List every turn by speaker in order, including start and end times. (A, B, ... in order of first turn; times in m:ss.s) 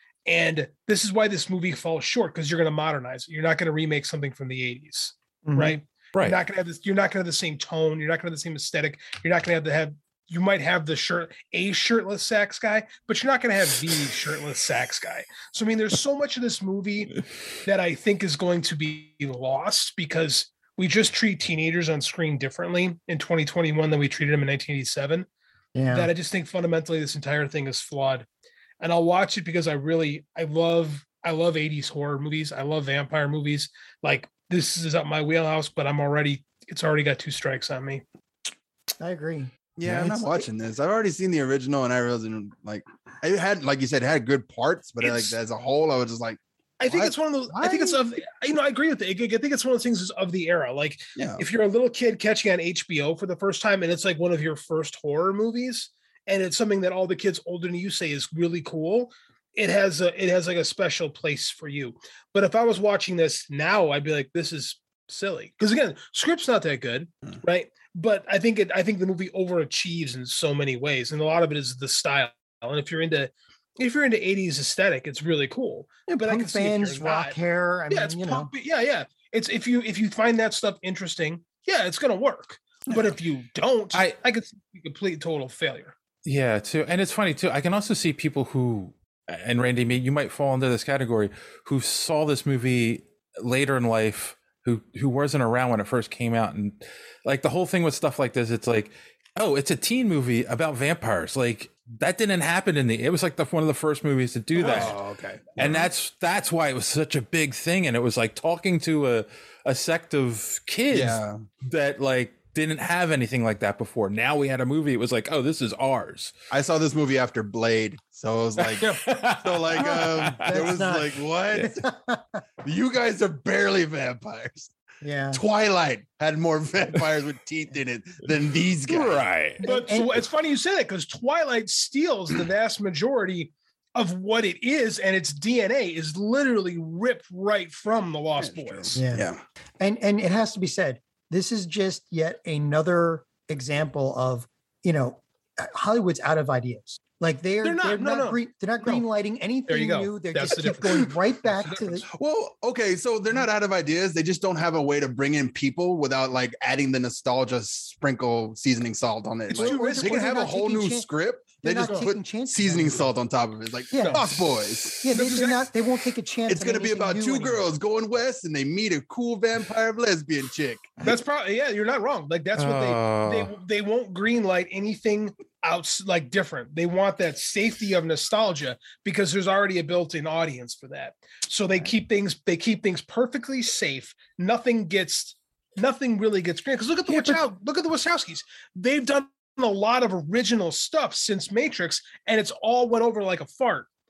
0:00.2-0:25.3 A
0:05.4-0:05.8 B
0:06.1-0:06.4 C
0:25.7-0:26.1 B
0:25.9-0:28.2 A
0:28.8-0:38.0 A
0:39.0-0:40.5 B
0:39.8-0:48.0 D
0:45.0-0:45.3 A
0:46.8-1:17.4 A
0:51.2-0:51.4 D
1:16.1-1:18.5 B
1:17.9-1:25.9 A
1:26.2-1:45.0 C
1:44.5-1:45.9 D
1:44.6-1:44.9 A
1:45.6-1:56.3 C
1:50.9-1:51.4 D
1:56.5-1:58.9 D
1:58.6-2:00.7 C
1:59.4-2:01.8 D
2:00.4-2:01.2 B
2:01.8-2:02.4 B
2:02.6-2:04.7 D
2:05.0-2:05.4 B
2:05.3-2:09.2 D
2:08.9-2:09.6 C
2:09.6-2:10.2 B
2:09.6-2:19.0 A
2:18.4-2:19.4 D
2:18.9-2:19.3 B
2:19.8-2:32.0 B
2:27.6-2:29.0 A
2:29.7-2:32.1 A
2:32.1-2:45.5 D
2:39.5-2:40.5 A
2:39.6-2:41.1 B
2:41.6-2:43.1 B
2:43.9-2:44.2 B
2:44.0-2:44.4 A
2:45.0-2:47.6 B
2:45.1-2:45.7 A
2:46.5-2:51.0 D
2:51.0-3:13.9 A
2:52.5-2:53.5 C
3:07.1-3:07.4 B